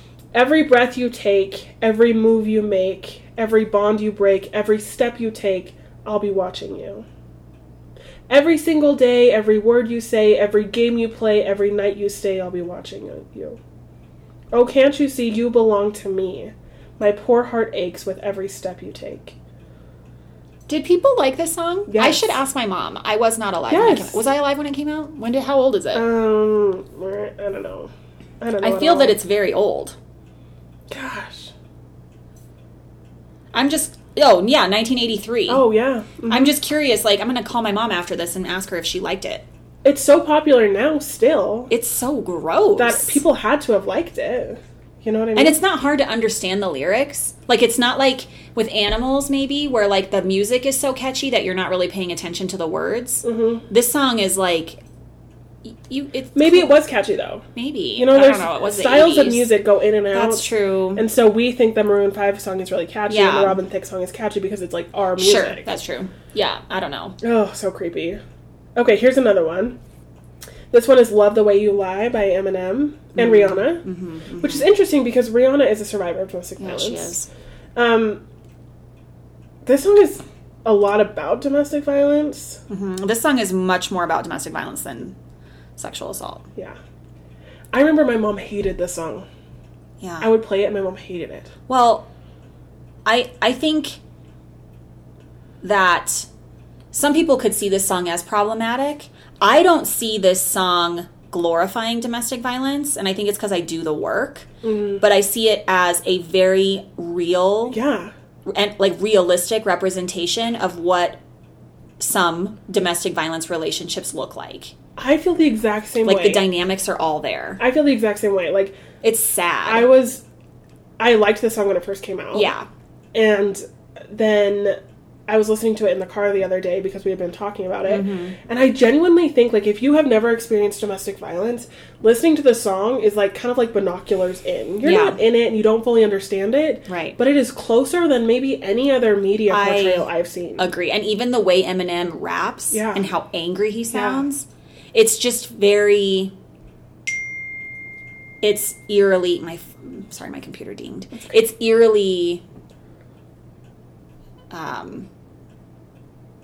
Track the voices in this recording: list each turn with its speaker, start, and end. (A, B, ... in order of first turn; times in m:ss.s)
0:00.3-0:07.0 A
0:08.3-0:13.6 A
0:14.5-0:19.3 A
0:20.7-0:26.0 B
0:21.9-0:22.4 A
0:23.7-0:24.2 A
0:25.9-0:29.2 A
0:28.6-0:30.0 B
0:30.9-0:31.5 A
0:33.5-0:35.6 B
0:35.5-0:36.5 A
0:36.3-0:39.4 B
0:39.8-0:41.7 A
0:41.7-0:43.2 B
0:42.8-0:45.6 A
0:45.4-0:54.8 B
0:53.2-0:53.6 A
0:55.6-0:56.8 B
0:56.3-0:57.4 A
0:57.5-0:59.5 B
0:58.0-1:05.8 A
1:00.1-1:01.0 B
1:03.1-1:03.6 B
1:05.2-1:07.2 B
1:07.2-1:08.2 A
1:08.8-1:09.8 A
1:10.7-1:13.8 A
1:13.1-1:14.7 B
1:14.4-1:17.2 A
1:16.6-1:17.3 B
1:17.8-1:18.2 A
1:19.6-1:22.6 A
1:22.7-1:25.2 B
1:25.8-1:26.4 B
1:27.7-1:29.3 A
1:30.0-1:30.3 B
1:30.2-1:31.5 A
1:31.7-1:32.1 B
1:33.0-1:34.0 B
1:35.6-1:36.3 B
1:36.9-1:44.5 B
1:44.6-1:45.0 A
1:45.0-1:47.8 B
1:47.7-1:48.1 A
1:48.4-1:51.2 B
1:52.0-1:54.7 B
1:55.0-1:56.4 A
1:56.0-1:57.6 B
1:57.6-1:58.8 A
1:59.0-1:59.9 B
1:59.6-2:00.2 A
2:01.0-2:02.5 A
2:02.3-2:02.7 B
2:03.1-2:20.7 A
2:07.8-2:08.4 B
2:14.8-2:15.2 B
2:16.9-2:17.2 B
2:19.5-2:26.3 B
2:22.7-2:23.1 A
2:23.9-2:24.2 A
2:28.4-2:32.4 B
2:34.5-2:35.1 B